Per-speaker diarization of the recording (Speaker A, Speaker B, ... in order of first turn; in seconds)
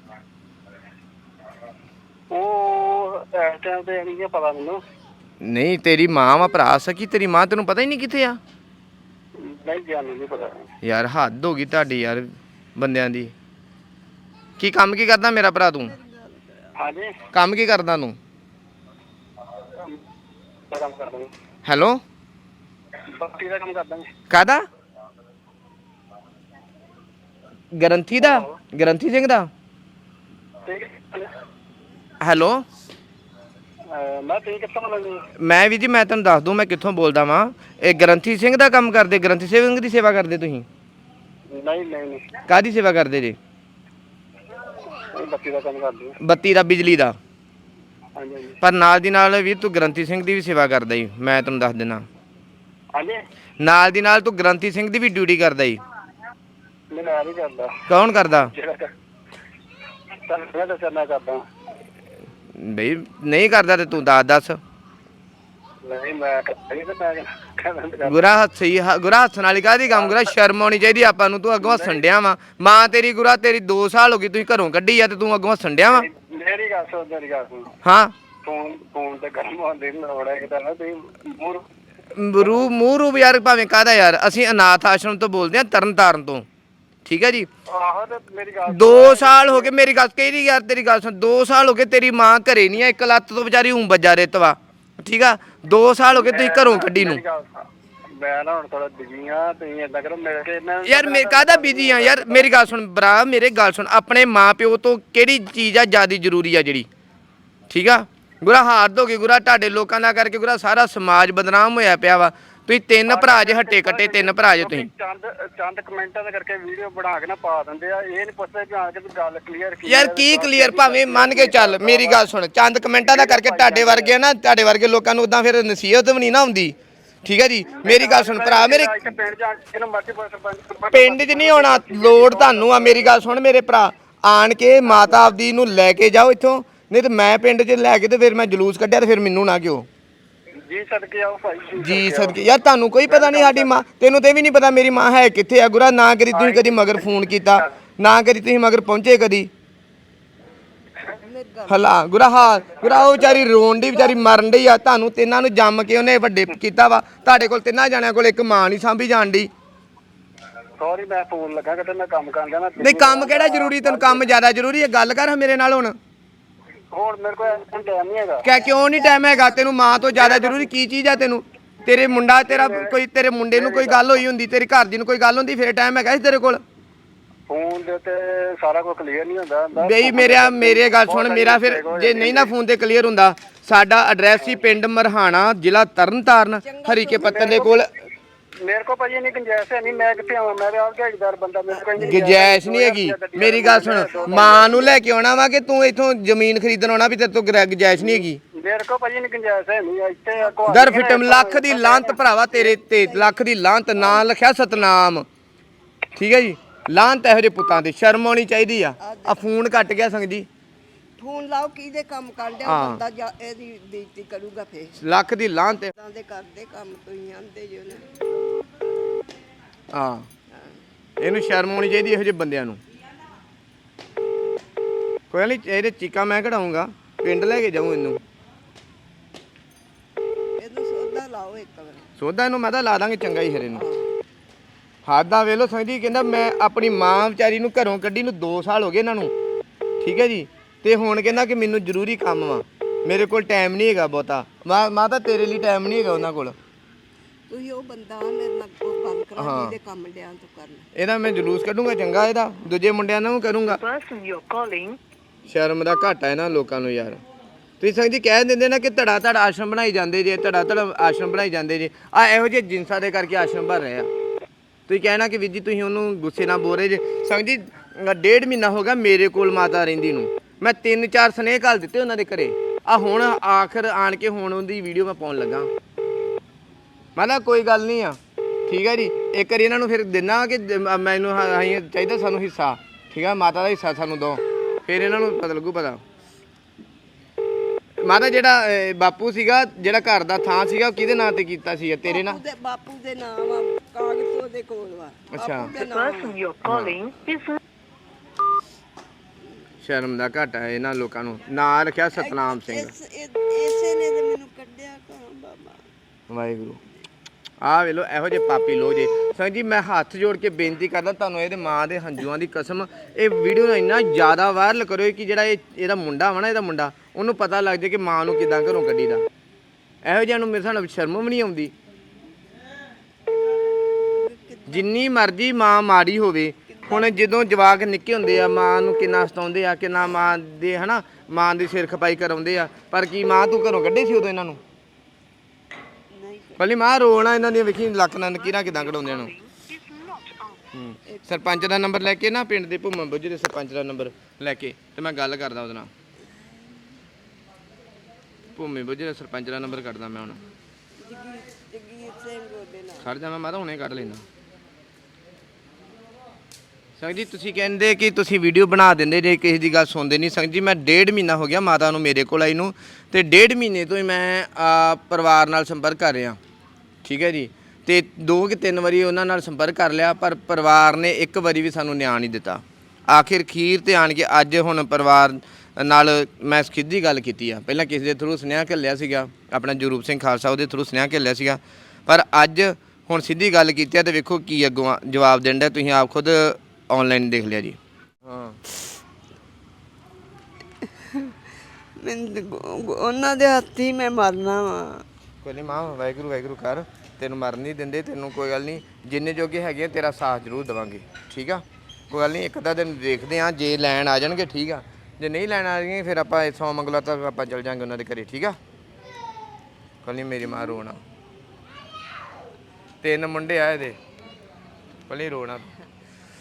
Speaker A: 2.3-4.8, 9.4-10.7, 16.8-17.1, 20.7-21.3, 23.1-24.1, 30.7-31.3, 33.9-35.2, 41.5-42.4, 45.1-46.1, 48.2-48.6, 56.9-57.8, 58.4-58.9, 60.3-61.4, 65.8-68.2, 69.9-70.3, 71.6-72.0, 76.0-77.7, 78.4-81.6, 87.7-89.7, 96.1-97.7, 98.2-102.5, 113.1-122.2, 123.0-124.2, 127.8-133.2, 134.9-135.2, 140.6-142.4, 143.1-143.8, 146.3-147.1, 152.8-153.3, 160.8-164.3, 166.9-168.5, 170.2-170.6, 172.4-172.9, 173.5-174.1, 177.5-182.5, 187.2-187.8, 188.6-194.9, 198.6-202.2
Speaker B: 5.4-8.4, 10.8-13.3, 14.6-15.9, 17.3-18.2, 21.6-22.0, 24.3-24.6, 27.7-29.5, 32.2-32.6, 35.4-40.7, 42.5-43.4, 46.2-47.2, 48.6-52.0, 53.6-55.8, 57.9-58.5, 62.5-64.6, 68.0-76.1, 77.8-78.1, 82.1-86.5, 87.0-87.5, 88.7-97.2, 100.8-106.9, 107.7-114.9, 119.8-129.1, 130.9-139.9, 141.8-149.5, 151.7-159.5, 162.8-166.0, 168.4-176.6, 179.8-187.9, 192.0-198.4, 200.7-205.3, 206.2-210.5, 212.6-213.0, 215.0-215.9, 219.9-220.3, 221.2-222.8, 225.3-228.2, 232.2-233.8, 235.1-239.3, 240.0-246.6, 249.4-249.7, 250.9-253.8, 255.5-257.2, 257.8-264.1, 264.9-275.7, 277.2-286.0, 288.0-292.4, 295.3-295.7, 296.6-297.0, 299.8-302.9, 306.3-306.8, 307.6-319.3, 320.0-321.7, 324.7-334.6, 336.6-339.3, 340.7-345.9, 348.6-350.4, 353.0-354.2, 357.0-366.4, 367.0-388.6, 395.4-408.6, 410.0-411.0, 413.0-414.0, 415.1-415.7
Speaker C: 16.0-16.8, 151.2-151.9, 186.6-187.7, 191.7-192.4, 193.8-194.9, 200.4-200.9, 202.6-203.3, 209.0-209.4, 211.2-215.0, 215.9-218.2, 230.6-232.1, 233.7-234.1, 247.5-250.9, 292.1-296.4, 302.1-305.8, 324.1-324.9, 326.7-327.0, 336.1-336.6, 351.0-353.1, 392.0-395.1
Speaker D: 253.7-255.0, 295.7-297.6, 338.5-340.6